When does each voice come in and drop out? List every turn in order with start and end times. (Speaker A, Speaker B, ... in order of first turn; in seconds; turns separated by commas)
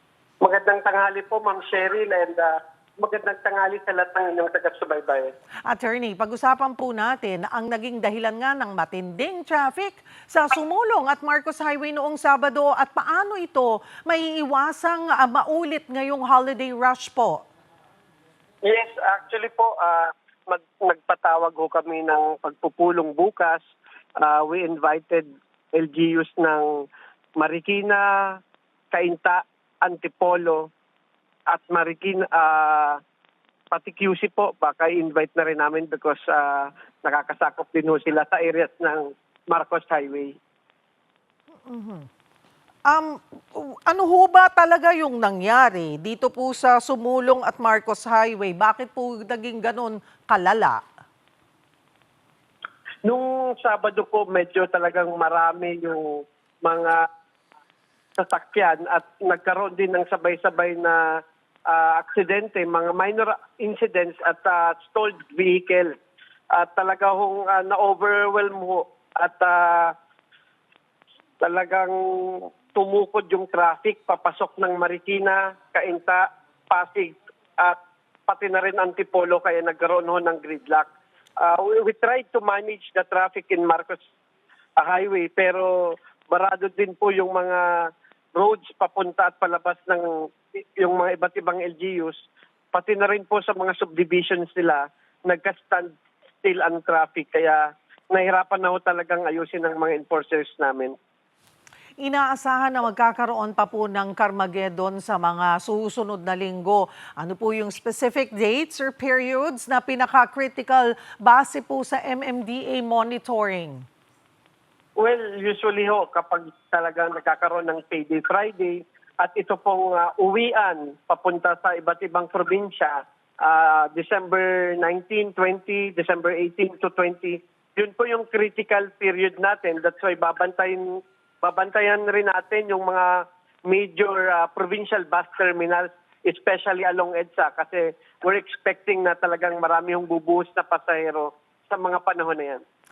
Speaker A: 0.4-5.3, Speaker B: 5.7-17.4, Speaker A: 18.6-23.6, Speaker A: 24.2-26.8, Speaker A: 27.4-28.4, Speaker A: 28.9-30.7, Speaker A: 31.5-33.0, Speaker A: 33.7-40.4, Speaker B: 41.6-42.1, Speaker B: 42.9-50.8, Speaker A: 53.0-57.0, Speaker A: 58.2-61.0, Speaker A: 61.7-66.0, Speaker A: 66.5-69.9, Speaker A: 71.4-84.0, Speaker A: 84.8-92.2, Speaker A: 92.7-95.9, Speaker A: 96.4-101.0, Speaker B: 102.0-113.8, Speaker A: 115.0-142.6